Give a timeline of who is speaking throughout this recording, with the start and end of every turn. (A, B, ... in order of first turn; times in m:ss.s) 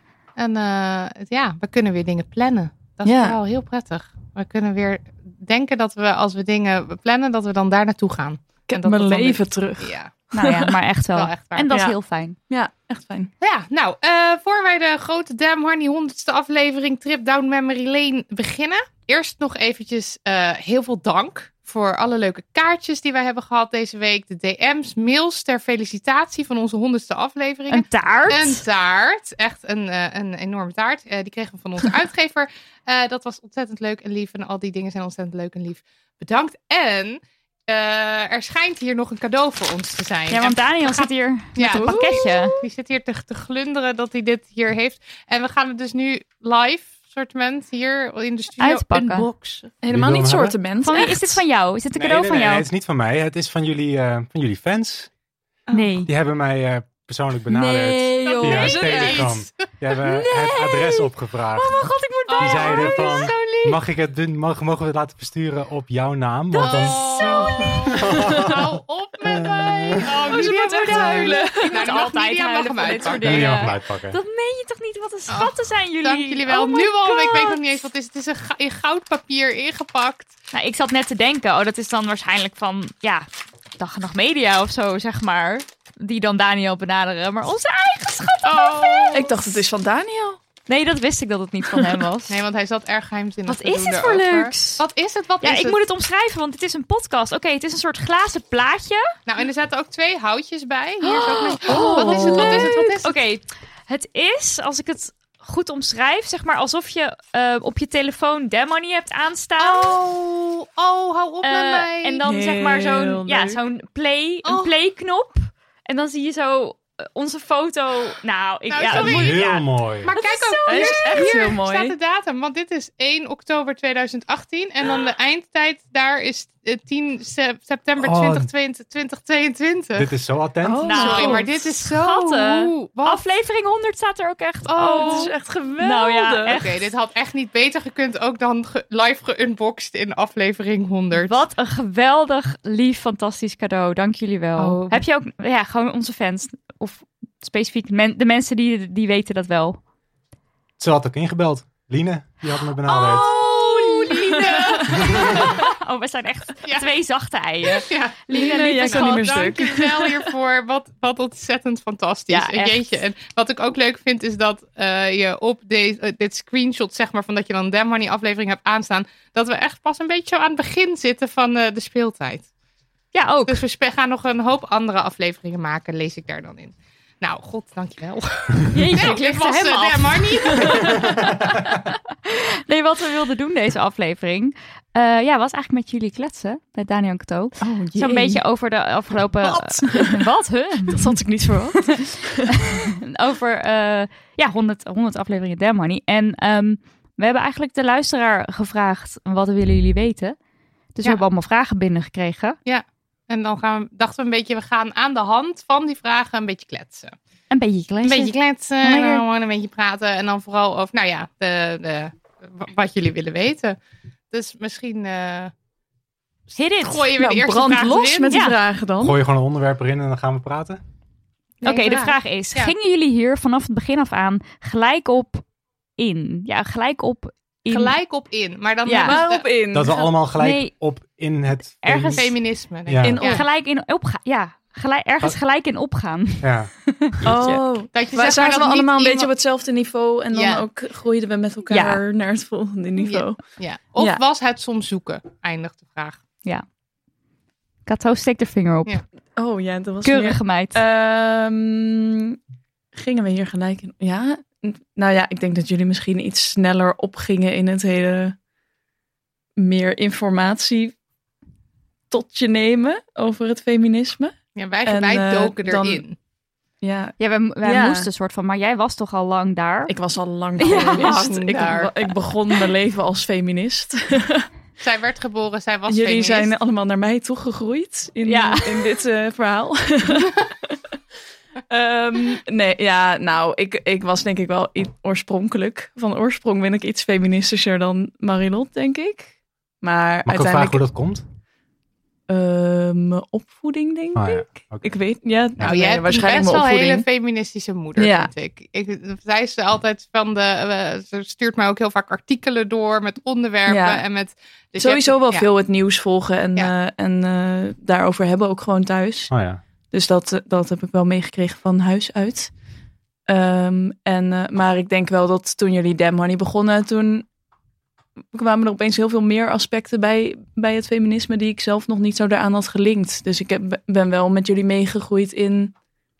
0:00.4-0:10.2 A
0:03.0-0:03.4 B
0:08.7-0:10.7 B
0:10.3-0:12.4 C
0:11.1-0:11.7 A
0:11.7-0:12.0 B
0:12.5-0:13.3 B
0:13.4-0:49.7 A
0:27.7-0:28.6 C
0:40.3-0:42.5 C
0:41.6-0:42.6 B
0:48.6-0:49.3 C
0:49.8-0:51.4 B
0:49.9-0:50.6 D
0:50.8-0:52.6 C
0:52.0-0:55.1 D
0:55.7-0:56.1 C
0:56.0-1:01.8 D
0:57.5-0:59.3 C
0:58.3-0:59.7 A
0:58.3-0:58.6 B
1:00.0-1:03.3 C
1:02.3-1:03.8 A
1:02.4-1:08.6 D
1:06.5-1:07.8 C
1:06.5-1:13.7 A
1:09.3-1:10.1 D
1:10.2-1:11.8 B
1:10.3-1:17.6 C
1:13.2-1:14.2 D
1:15.3-1:20.3 A
1:20.5-1:23.3 C
1:23.8-1:29.3 C
1:28.4-1:29.3 A
1:29.1-1:30.4 B
1:30.7-1:32.4 C
1:32.3-1:35.8 A
1:33.5-1:34.8 C
1:35.4-1:39.1 C
1:39.2-1:43.1 A
1:41.0-1:50.0 C
1:41.6-1:42.9 B
1:49.6-1:52.2 A
1:51.4-2:01.4 C
1:52.2-1:53.6 B
1:54.4-1:54.7 A
1:58.7-1:59.5 A
1:58.8-2:00.1 D
2:00.0-2:10.1 A
2:00.7-2:02.0 B
2:08.0-2:08.5 D
2:09.9-2:10.9 D
2:10.6-2:11.4 B
2:10.8-2:16.9 C
2:10.9-2:13.2 A
2:14.6-2:15.3 A
2:14.9-2:16.5 B
2:16.4-2:21.4 A
2:21.1-2:29.8 C
2:24.6-2:25.0 A
2:30.8-2:33.3 D
2:32.9-2:35.6 A
2:33.6-2:39.6 C
2:35.1-2:35.3 D
2:36.6-2:36.9 A
2:37.7-2:52.5 A
2:38.3-2:40.3 B
2:42.3-2:43.0 C
2:53.1-2:53.6 C
2:53.5-3:01.0 A
2:58.7-3:11.2 C
3:07.6-3:08.4 B
3:09.4-3:10.2 B
3:10.9-3:12.5 B
3:11.7-3:20.4 C
3:20.9-3:22.6 C
3:22.6-3:27.1 A
3:27.5-3:29.2 C
3:28.0-3:33.8 A
3:34.3-3:35.5 A
3:36.5-3:37.1 C
3:36.8-3:38.3 A
3:37.2-3:39.2 B
3:38.3-3:38.6 C
3:39.0-3:40.8 D
3:41.6-3:42.7 A
3:41.6-3:45.4 C
3:46.0-3:48.0 C
3:47.7-3:49.5 A
3:48.8-3:49.2 C
3:49.0-3:50.1 B
3:49.7-3:52.2 D
3:50.4-3:50.7 C
3:51.8-3:52.3 C
3:52.1-3:53.4 A
3:52.8-3:53.2 D
3:53.0-3:53.4 B
3:53.2-3:57.7 C
3:56.4-3:56.7 D
3:57.2-4:03.4 B
3:57.9-3:59.3 A
4:00.3-4:00.6 A
4:01.7-4:02.0 C
4:03.0-4:06.2 A
4:07.9-4:09.0 C
4:09.4-4:12.4 B
4:10.0-4:10.8 C
4:12.9-4:18.4 B
4:19.6-4:20.9 B
4:22.1-4:26.0 B
4:24.6-4:26.2 A
4:26.8-4:28.1 B
4:27.2-4:29.9 C
4:29.9-4:34.5 B
4:30.6-4:31.2 C
4:30.6-4:32.1 A
4:34.8-4:36.5 A
4:35.9-4:40.7 B
4:38.2-4:38.9 C
4:41.7-4:49.3 B
4:49.8-4:50.8 B
4:50.2-4:51.2 D
4:52.3-4:57.0 B
4:54.1-4:54.8 D
4:55.6-5:05.5 A
4:58.0-4:58.3 B
5:03.7-5:04.0 B
5:04.8-5:09.3 B
5:09.3-5:09.6 D
5:09.9-5:12.5 B
5:13.3-5:17.2 B
5:18.3-5:25.7 B